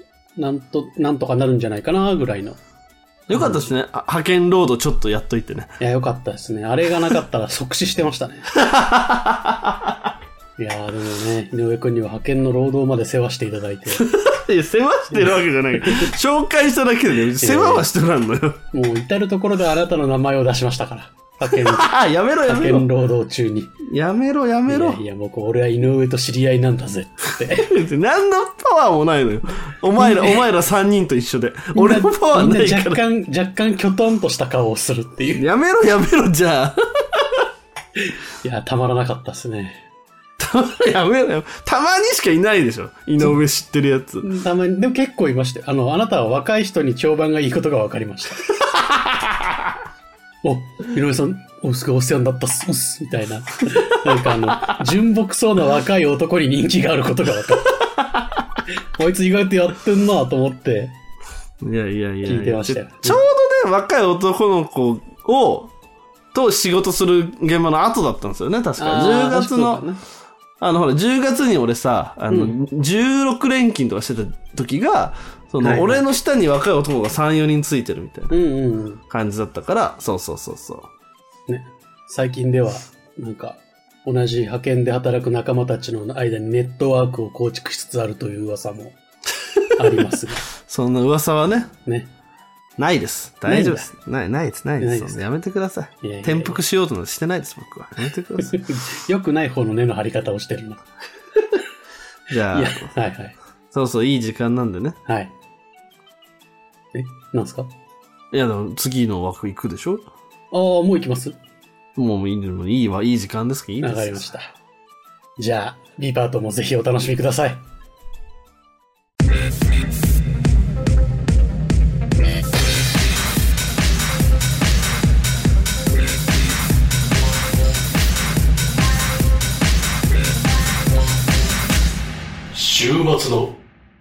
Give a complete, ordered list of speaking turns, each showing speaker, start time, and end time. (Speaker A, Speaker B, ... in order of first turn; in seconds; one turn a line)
Speaker A: 0.4-2.6
Speaker B: 3.3-5.7
Speaker A: 3.3-3.6
Speaker A: 5.8-8.5
Speaker B: 8.5-10.0
Speaker A: 10.6-14.0
Speaker B: 13.9-18.6
Speaker A: 15.1-16.1
Speaker A: 17.4-17.9
Speaker A: 18.7-21.9
Speaker B: 21.5-22.9
Speaker A: 22.5-23.7
Speaker B: 23.9-25.0
Speaker A: 24.7-27.7
Speaker B: 27.5-33.0
Speaker A: 30.0-30.4
Speaker A: 31.7-35.5
Speaker B: 35.4-37.5
Speaker A: 38.4-39.8
Speaker B: 40.4-44.3
Speaker A: 44.2-48.4
Speaker B: 48.6-49.7
Speaker A: 50.4-57.8
Speaker A: 59.0-61.0
Speaker B: 61.6-65.7
Speaker A: 62.2-63.3
Speaker B: 66.3-69.8
Speaker A: 68.8-70.0
Speaker B: 70.6-78.3
Speaker A: 72.3-72.6
Speaker A: 75.6-76.0
Speaker A: 78.3-79.0
Speaker B: 79.1-80.9
Speaker A: 81.5-89.0
Speaker A: 89.8-90.4
Speaker B: 90.7-91.7
Speaker A: 91.9-92.1
Speaker B: 92.8-98.6
Speaker A: 93.5-93.9
Speaker A: 94.8-95.2
Speaker A: 96.0-96.6
Speaker A: 98.4-100.8
Speaker B: 102.3-102.9
Speaker A: 102.5-103.4
Speaker B: 103.7-105.0
Speaker A: 105.1-105.3
Speaker A: 106.9-107.7
Speaker B: 108.3-110.1
Speaker A: 110.5-111.4
Speaker B: 112.0-114.3
Speaker A: 113.8-114.5
Speaker A: 115.4-117.6
Speaker A: 132.5-133.6